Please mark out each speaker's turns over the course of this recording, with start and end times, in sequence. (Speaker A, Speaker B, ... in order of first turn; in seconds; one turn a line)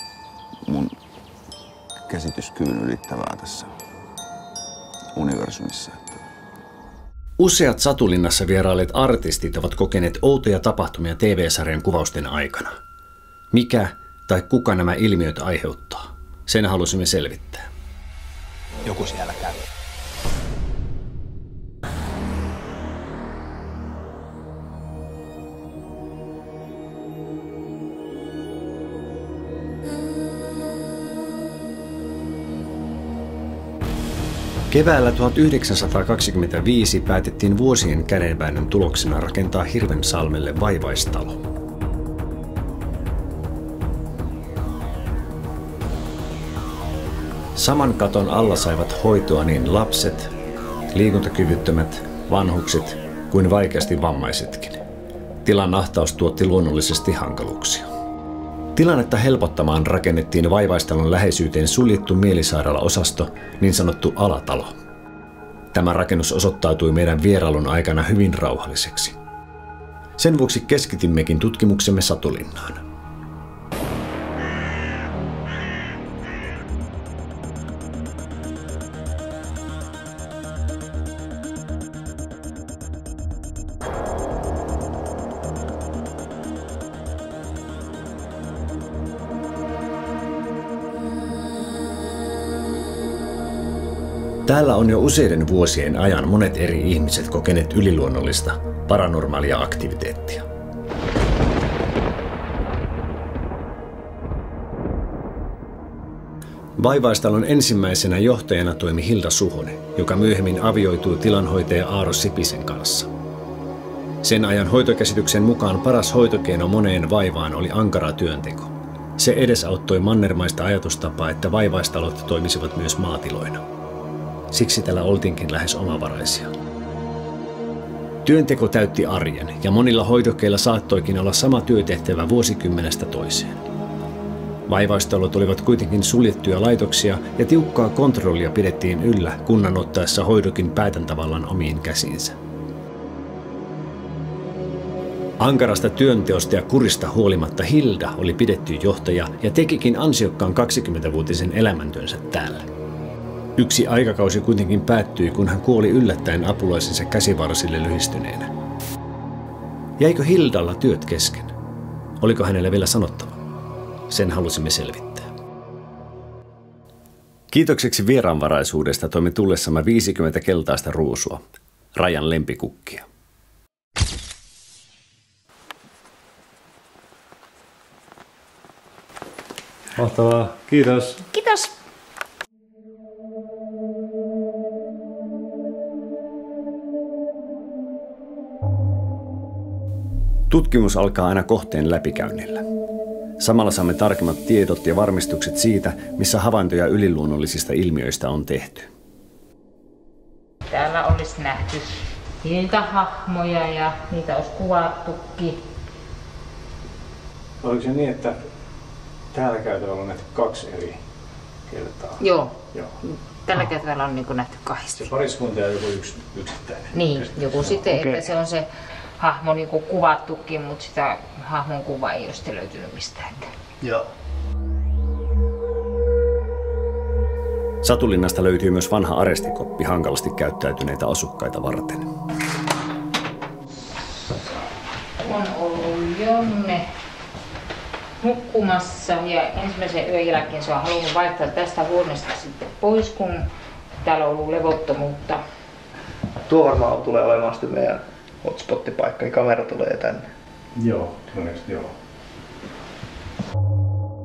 Speaker A: 0.6-1.0
Speaker A: 2.1-3.7
Speaker A: 5.1-6.2
Speaker B: 7.4-12.7
Speaker B: 13.5-17.7
Speaker B: 34.7-41.4
Speaker B: 47.5-50.3
Speaker B: 50.9-54.8
Speaker B: 55.4-57.9
Speaker B: 58.7-64.7
Speaker B: 65.7-69.2
Speaker B: 70.2-72.8
Speaker B: 94.5-100.5
Speaker B: 106.8-113.1
Speaker B: 114.2-123.6
Speaker B: 124.5-126.5
Speaker B: 128.2-133.6
Speaker B: 134.7-142.4
Speaker B: 145.4-152.7
Speaker B: 153.6-158.5
Speaker B: 160.0-161.5
Speaker B: 162.2-163.3
Speaker B: 164.1-165.3
Speaker B: 167.5-171.4
Speaker B: 171.9-173.0
Speaker B: 180.0-181.2
Speaker C: 181.3-181.7
Speaker B: 190.5-192.6
Speaker B: 193.4-198.9
Speaker C: 200.7-205.6
Speaker D: 207.6-208.4
Speaker D: 209.3-211.0
Speaker D: 211.7-212.2
Speaker C: 212.2-212.6
Speaker C: 213.4-215.1
Speaker D: 214.9-217.9
Speaker C: 216.9-218.7
Speaker E: 217.9-218.2
Speaker C: 219.2-223.5
Speaker E: 223.8-224.1
Speaker B: 227.8-232.1
Speaker C: 234.0-234.7
Speaker C: 235.2-236.8
Speaker C: 238.2-243.5
Speaker C: 244.0-245.4
Speaker E: 246.5-250.3
Speaker D: 250.8-251.9